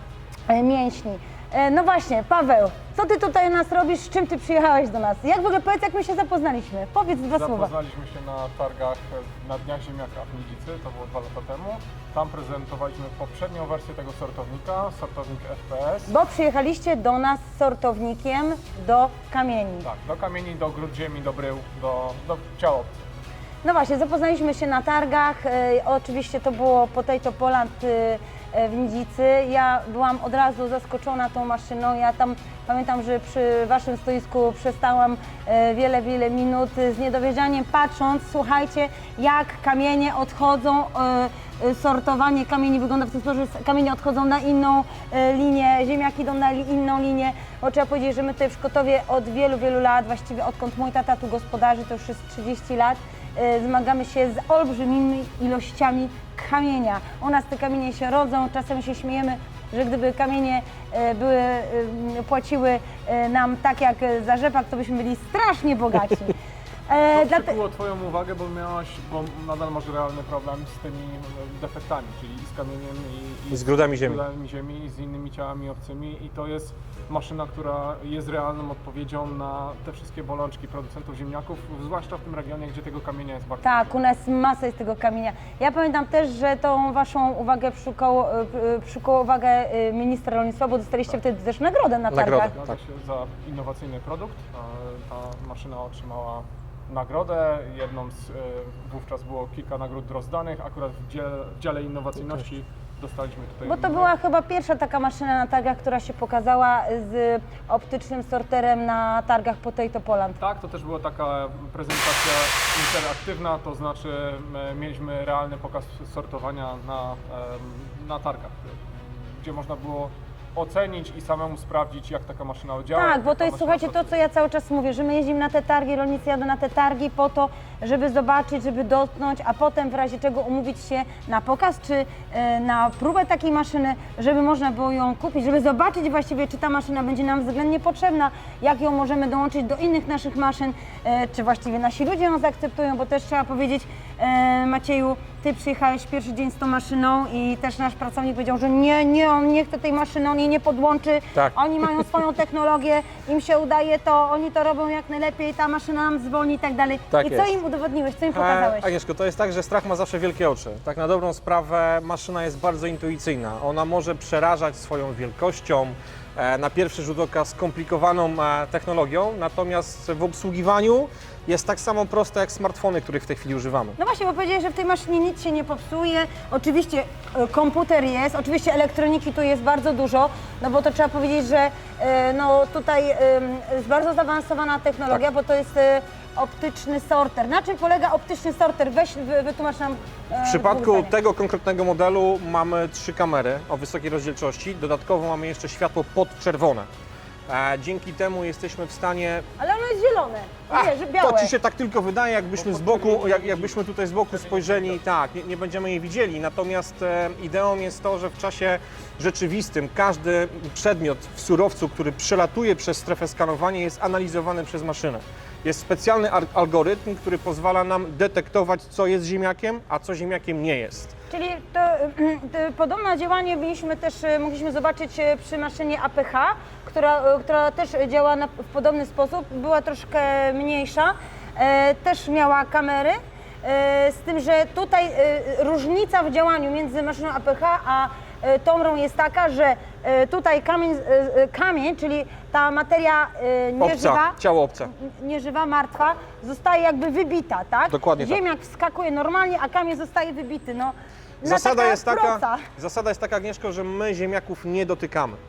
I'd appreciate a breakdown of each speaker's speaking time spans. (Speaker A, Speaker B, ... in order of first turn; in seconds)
Speaker A: 0.5-7.7, 16.1-19.9, 23.6-66.3, 66.9-67.6, 83.6-92.5, 103.7-110.4, 122.9-158.9, 174.0-191.1, 199.6-201.5, 221.3-244.4, 244.9-252.6
Speaker B: 7.3-16.1, 19.8-23.0, 67.1-84.0, 92.5-104.1, 110.4-124.2, 202.6-205.0
Speaker C: 73.5-74.2, 92.1-92.8, 157.1-157.6, 158.3-174.0, 190.4-196.9, 197.5-199.5, 200.7-221.2, 243.8-244.9, 247.9-248.4, 251.4-255.4